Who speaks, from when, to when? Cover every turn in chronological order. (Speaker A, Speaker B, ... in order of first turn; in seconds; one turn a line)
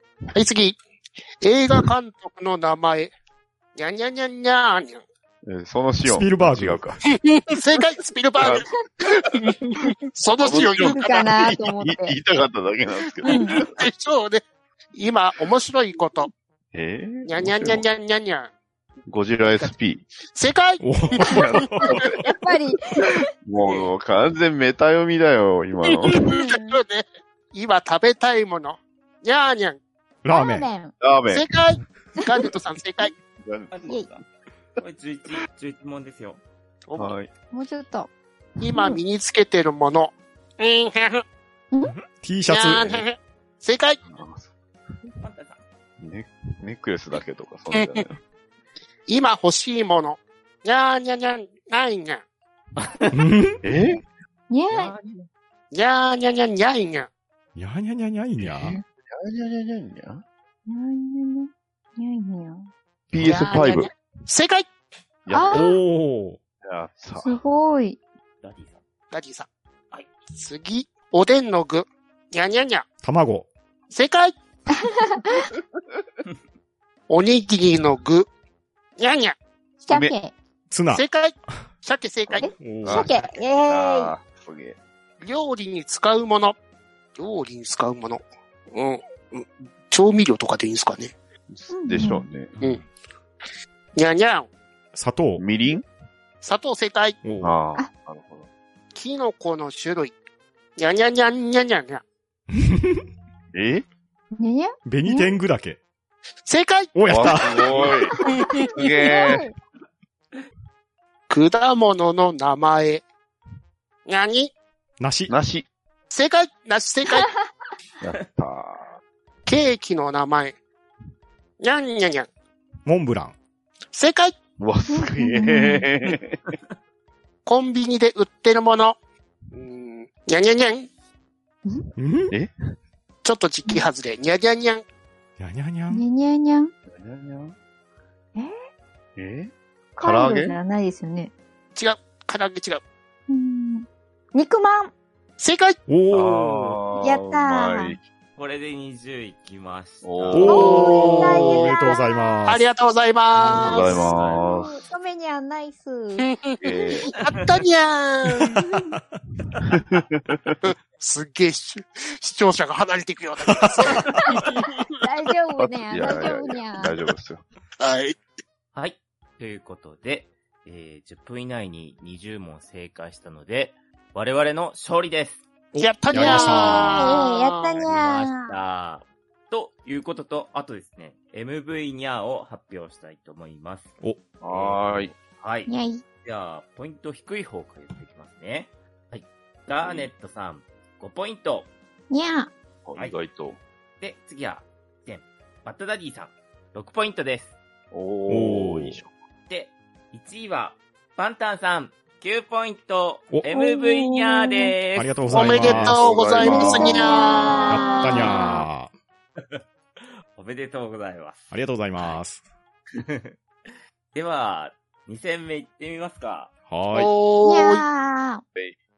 Speaker A: 0.3-0.8
Speaker A: 1.4-3.1
Speaker A: 3.8-5.0
Speaker B: 5.5-7.0
Speaker C: 6.0-7.0
Speaker A: 7.2-11.3
Speaker B: 10.4-13.7
Speaker D: 10.8-12.1
Speaker A: 13.2-14.4
Speaker D: 13.2-13.6
Speaker A: 14.9-16.3
Speaker B: 16.7-17.9
Speaker A: 17.2-18.5
Speaker B: 19.1-20.0
Speaker E: 19.4-19.7
Speaker A: 20.3-20.8
Speaker C: 20.8-22.0
Speaker B: 21.2-22.2
Speaker D: 21.3-23.2
Speaker B: 23.4-26.2
Speaker E: 23.6-23.9
Speaker A: 25.9-29.8
Speaker D: 26.2-26.8
Speaker C: 30.2-30.7
Speaker D: 30.3-30.9
Speaker B: 31.0-31.4
Speaker A: 31.3-33.1
Speaker B: 33.4-34.2
Speaker E: 33.7-34.2
Speaker E: 34.8-37.1
Speaker B: 36.9-37.3
Speaker D: 37.5-38.1
Speaker A: 38.6-41.2
Speaker C: 41.9-43.0
Speaker A: 42.5-44.0
Speaker B: 44.1-44.5
Speaker E: 45.2-45.6
Speaker B: 46.0-48.2
Speaker A: 47.7-48.0
Speaker A: 49.1-52.2
Speaker E: 52.8-53.2
Speaker C: 53.1-53.6
Speaker B: 53.6-54.0
Speaker D: 54.5-55.0
Speaker E: 54.7-55.3
Speaker A: 55.7-57.1
Speaker C: 57.5-58.8
Speaker B: 58.4-60.2
Speaker D: 60.7-62.7
Speaker B: 63.1-63.9
Speaker A: 63.2-64.7
Speaker B: 65.3-65.7
Speaker D: 65.3-65.7
Speaker C: 65.5-66.4
Speaker B: 66.6-67.4
Speaker D: 67.2-68.0
Speaker E: 68.4-68.8
Speaker A: 69.1-69.5
Speaker A: 70.3-72.8
Speaker C: 73.0-73.5
Speaker A: 73.9-74.3
Speaker D: 74.7-75.5
Speaker A: 77.1-78.3
Speaker A: 79.0-79.3
Speaker D: 79.8-80.3
Speaker B: 79.9-80.1
Speaker C: 80.7-81.0
Speaker A: 80.9-82.5
Speaker D: 82.3-84.1
Speaker C: 82.6-83.0
Speaker B: 82.8-84.8
Speaker A: 85.2-86.6
Speaker A: 87.2-91.1
Speaker B: 91.5-92.5
Speaker D: 91.7-92.3
Speaker E: 92.5-92.8
Speaker A: 94.0-94.5
Speaker C: 94.9-95.4
Speaker B: 95.4-95.8
Speaker A: 96.4-97.2
Speaker C: 97.2-97.6
Speaker B: 97.4-98.5
Speaker A: 98.9-100.1
Speaker A: 100.8-102.0
Speaker C: 102.5-103.0
Speaker B: 103.5-103.8
Speaker D: 104.4-105.3
Speaker C: 104.8-105.8
Speaker A: 106.4-107.3
Speaker C: 106.9-107.7
Speaker B: 107.1-108.2
Speaker A: 108.2-108.7
Speaker D: 108.6-109.5
Speaker B: 108.7-109.5
Speaker A: 111.3-113.0
Speaker A: 114.0-114.5
Speaker C: 115.0-115.3
Speaker B: 115.3-115.7
Speaker A: 116.1-117.3
Speaker B: 118.0-118.9
Speaker A: 119.5-120.6
Speaker A: 121.6-122.3
Speaker C: 122.8-123.3
Speaker A: 123.9-124.3
Speaker B: 124.6-126.4
Speaker D: 124.9-125.9
Speaker A: 127.5-128.9
Speaker A: 129.5-130.9
Speaker C: 132.0-132.3
Speaker A: 133.2-134.8
Speaker C: 135.4-136.0
Speaker D: 135.9-136.7
Speaker B: 136.9-137.6
Speaker B: 139.2-140.5
Speaker D: 140.0-141.3
Speaker A: 141.8-142.8
Speaker D: 143.3-144.9
Speaker A: 145.4-145.8
Speaker C: 145.9-146.8
Speaker B: 146.1-148.0
Speaker D: 147.0-148.0
Speaker E: 148.4-150.7
Speaker B: 150.0-151.4
Speaker C: 150.3-152.6
Speaker D: 150.4-152.5
Speaker A: 150.6-151.8
Speaker A: 152.5-153.9
Speaker B: 153.4-154.8
Speaker D: 153.5-156.3
Speaker E: 153.5-154.5
Speaker A: 156.3-158.6
Speaker B: 156.6-157.1
Speaker C: 158.5-159.0
Speaker D: 158.6-158.9
Speaker B: 159.6-160.6
Speaker A: 160.6-164.9
Speaker D: 164.0-164.4
Speaker D: 165.0-166.9
Speaker B: 165.6-167.4
Speaker A: 167.8-168.2
Speaker E: 168.7-175.4
Speaker C: 175.7-177.0
Speaker A: 175.8-177.7
Speaker D: 176.2-178.5
Speaker E: 177.7-191.7
Speaker B: 184.4-185.1
Speaker D: 185.7-186.0
Speaker B: 189.8-190.1
Speaker D: 192.1-192.5
Speaker B: 192.8-193.6
Speaker E: 194.0-197.6
Speaker B: 197.9-199.1
Speaker C: 198.3-199.0
Speaker E: 199.5-205.6
Speaker D: 203.5-204.7
Speaker C: 204.9-206.0
Speaker A: 205.3-208.3
Speaker B: 205.6-207.1
Speaker D: 206.4-208.7
Speaker C: 207.7-208.9
Speaker E: 209.4-212.2
Speaker C: 211.5-212.4
Speaker E: 212.9-216.5
Speaker C: 216.7-217.1
Speaker A: 216.9-217.8
Speaker D: 217.4-218.4